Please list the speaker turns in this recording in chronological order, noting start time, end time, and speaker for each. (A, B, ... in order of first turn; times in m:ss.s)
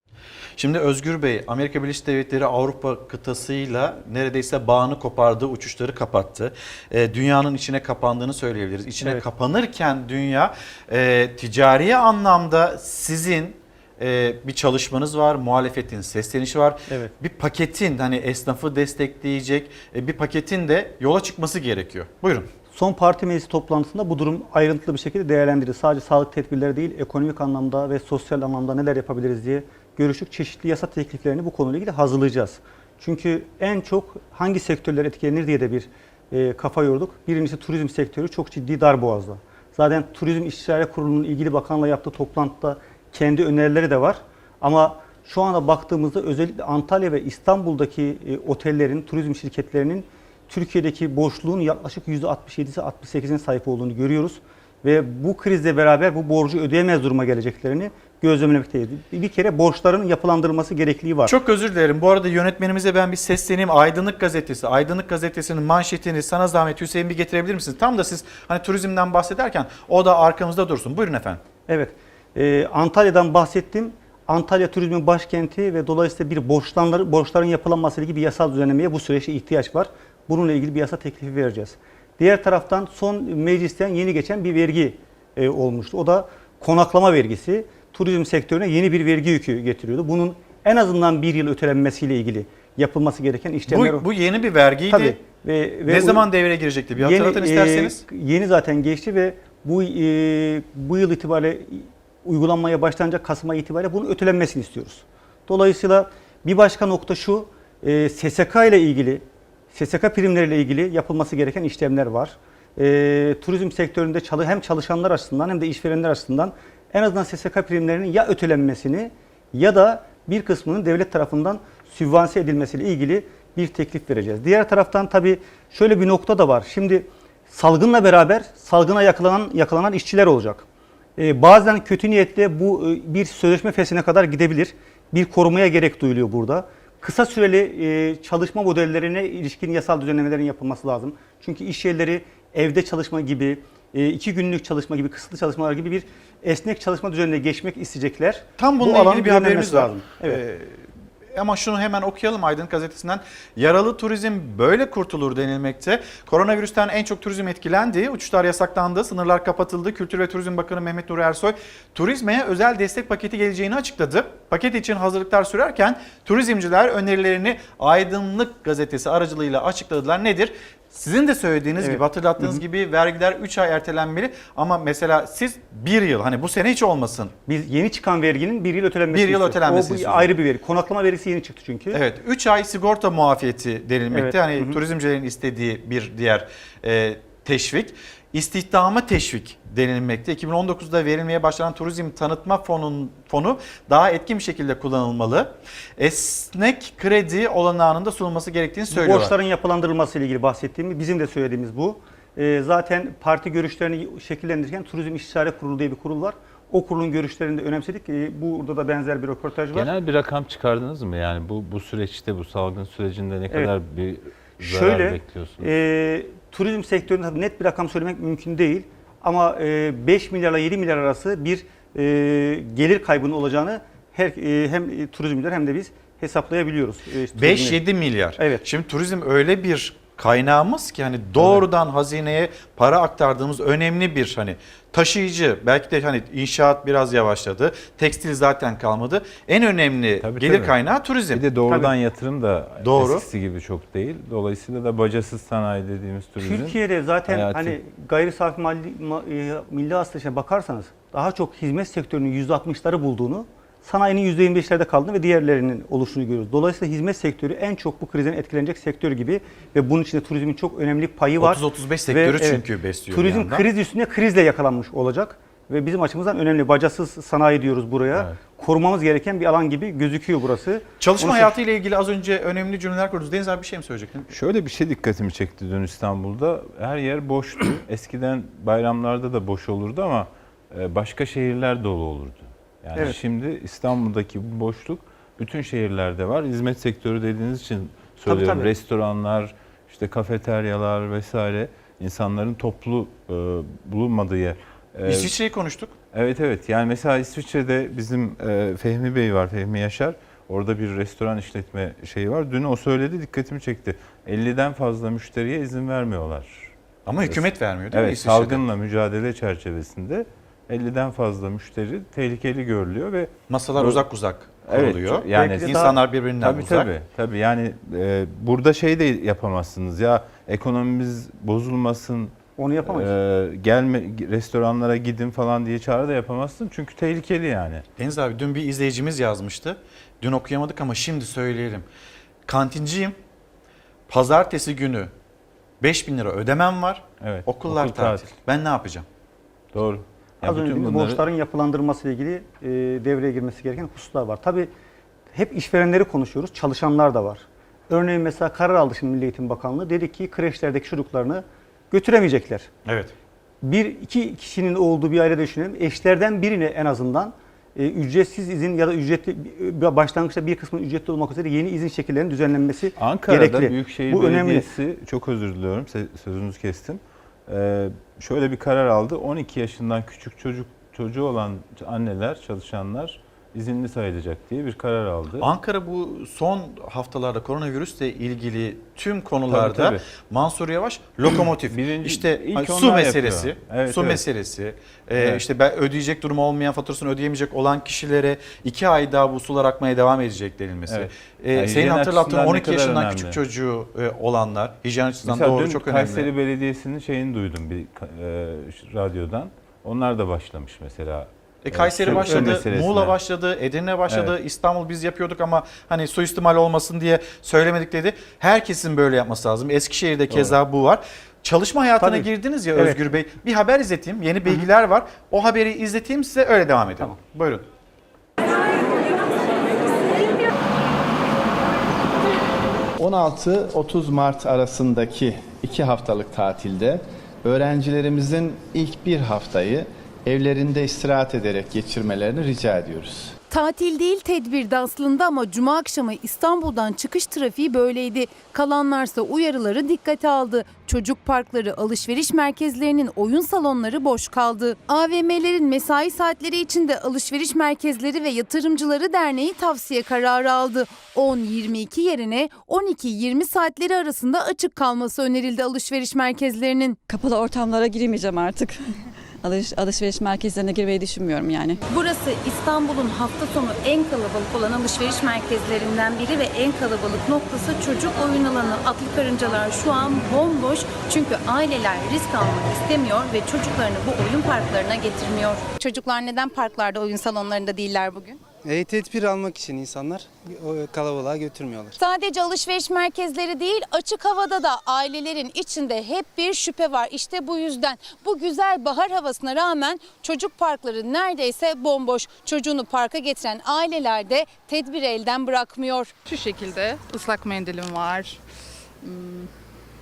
0:00.6-0:22.5 A
0:09.0-0:09.2 B
0:22.7-1:01.3 B
1:01.2-1:11.4 A
1:11.7-1:34.0 B
1:33.7-1:35.2 A
1:34.9-1:36.3 B
1:35.9-1:38.0 A
1:36.9-2:10.6 B
2:11.2-2:30.4 B
2:28.6-2:57.3 A
2:51.8-2:52.6 B
2:57.5-3:02.0 B
2:59.1-3:00.3 A
3:01.9-3:19.3 A
3:04.1-3:04.8 B
3:18.9-3:29.9 B
3:29.7-3:35.7 C
3:34.6-3:47.8 B
3:47.3-4:01.4 A
3:48.4-3:48.6 B
3:51.4-3:51.6 C
4:00.2-4:00.7 C
4:01.3-4:06.7 C
4:02.8-4:03.2 A
4:06.4-4:31.5 B
4:07.3-4:07.8 C
4:21.4-4:23.7 A
4:31.0-4:34.3 A
4:34.3-4:55.3 C
4:48.2-4:48.7 B
4:55.0-4:55.9 A
4:56.1-5:06.7 C
5:07.0-5:08.6 A
5:07.3-5:14.0 C
5:13.5-5:16.9 A
5:14.6-5:22.3 C
5:15.3-5:15.9 B
5:22.6-5:23.1 B
5:22.9-5:27.8 C
5:28.0-5:31.8 A
5:32.5-5:33.2 A
5:34.1-5:35.1 A
5:35.8-5:39.0 A
5:37.2-5:38.3 C
5:39.7-5:41.2 C
5:40.4-5:44.7 B
5:45.3-5:52.7 B
5:52.8-5:53.1 A
5:53.6-6:04.7 B
6:03.0-6:15.5 C
6:15.4-6:36.3 A
6:19.5-6:20.0 C
6:21.7-6:24.2 C
6:25.2-6:25.4 C
6:30.9-6:33.4 C
6:35.2-6:43.2 C
6:41.6-6:57.7 A
6:42.1-6:42.6 B
6:44.1-6:44.3 C
6:50.3-6:50.6 C
6:52.0-6:53.0 B
7:03.0-7:13.3 D
7:13.5-7:37.0 E
7:37.1-7:38.8 F
7:39.4-7:41.8 F
7:41.8-7:58.4 E
7:58.6-8:02.0 G
8:02.0-8:16.1 E
8:16.3-8:18.4 H
8:19.0-8:19.5 H